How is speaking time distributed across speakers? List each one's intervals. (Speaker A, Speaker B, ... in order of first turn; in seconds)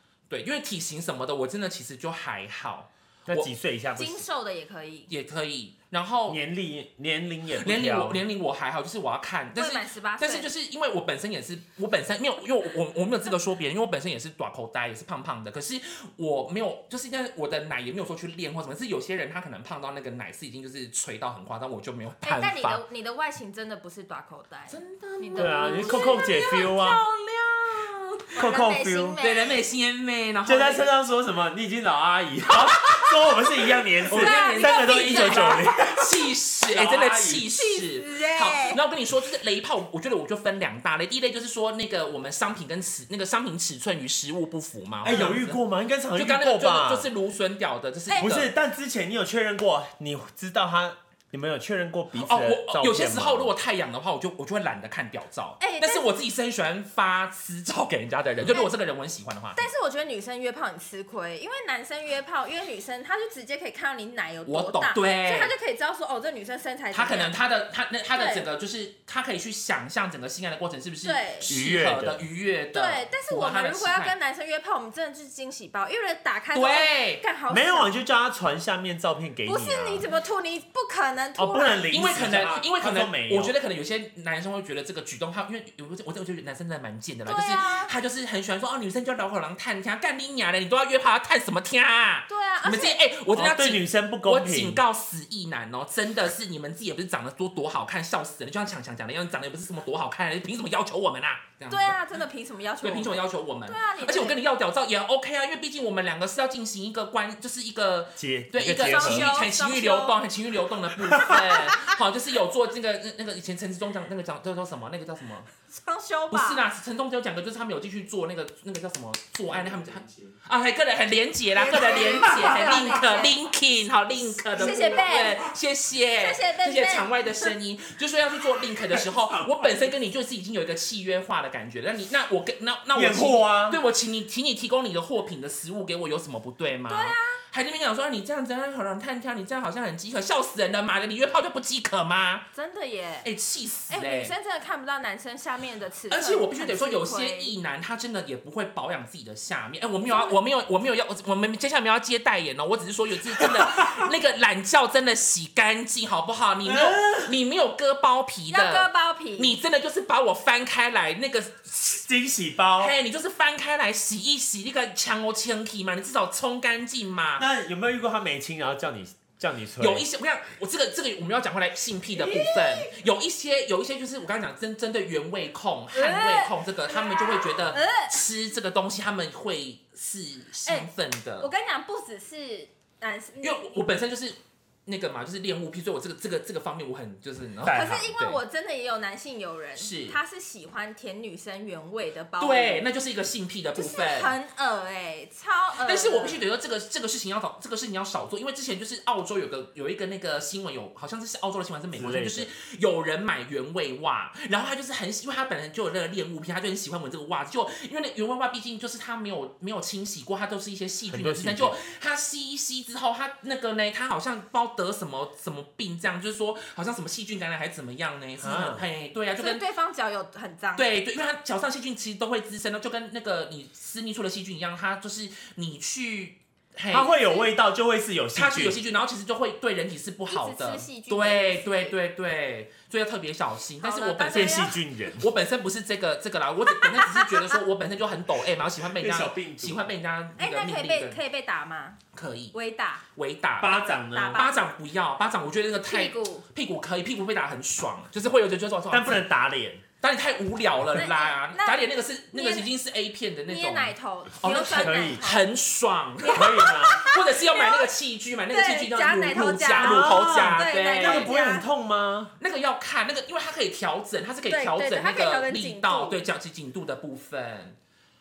Speaker A: 0.3-3.5, 5.1-6.4, 7.5-22.8, 24.7-27.9, 29.2-30.9, 32.5-33.2, 34.0-45.6, 46.1-48.5, 52.2-59.7, 64.5-65.5, 66.9-74.2, 76.5-77.2, 81.9-102.0, 102.8-115.5, 116.3-142.5, 143.2-144.3, 146.1-162.1, 162.8-167.4, 169.8-181.5, 183.4-188.4, 189.8-190.2, 192.4-194.3, 195.8-219.6, 220.8-227.1, 228.3-241.2, 242.1-242.6, 243.2-249.2, 250.0-261.3, 262.4-267.8
Speaker B: 3.3-4.2, 6.3-8.2, 25.4-27.0, 28.4-29.2, 30.4-37.5, 45.0-47.1, 48.2-53.5, 71.5-72.3, 77.5-80.1, 81.4-83.5, 93.3-94.8, 108.2-109.4, 111.0-111.7, 119.7-119.9, 122.2-122.8, 129.0-129.5, 132.9-133.8, 153.4-154.1, 156.7-157.3, 162.0-163.0, 167.4-170.1, 187.7-188.1, 201.9-202.5, 211.1-211.8, 218.4-218.9, 226.9-228.8, 234.3-235.3, 239.0-239.9, 243.6-244.4, 248.9-249.8, 254.8-255.3, 256.3-257.0, 259.8-262.3
Speaker C: 4.0-5.1, 9.6-10.5, 22.2-27.0, 28.3-29.6, 34.2-35.7, 37.5-38.8, 48.1-48.4, 55.6-56.1, 58.4-58.7, 59.5-67.3, 68.1-68.5, 71.0-71.5, 72.7-78.0, 79.5-82.1, 87.3-87.9, 92.3-93.0, 101.7-104.4, 108.6-110.2, 115.7-116.6, 121.6-123.3, 124.5-125.4, 126.2-127.5, 136.9-137.4, 142.5-143.3, 143.9-147.6, 150.1-150.4, 158.5-159.6, 172.2-172.9, 175.9-178.2, 181.4-183.7, 187.7-192.9, 193.8-196.4, 219.4-220.8, 227.1-227.4, 230.3-231.9, 233.8-234.8, 236.8-237.5, 240.4-242.0, 242.5-243.0, 244.1-244.7, 245.9-246.5, 250.9-252.7, 253.5-255.5, 256.2-257.9, 258.5-261.7, 264.5-266.2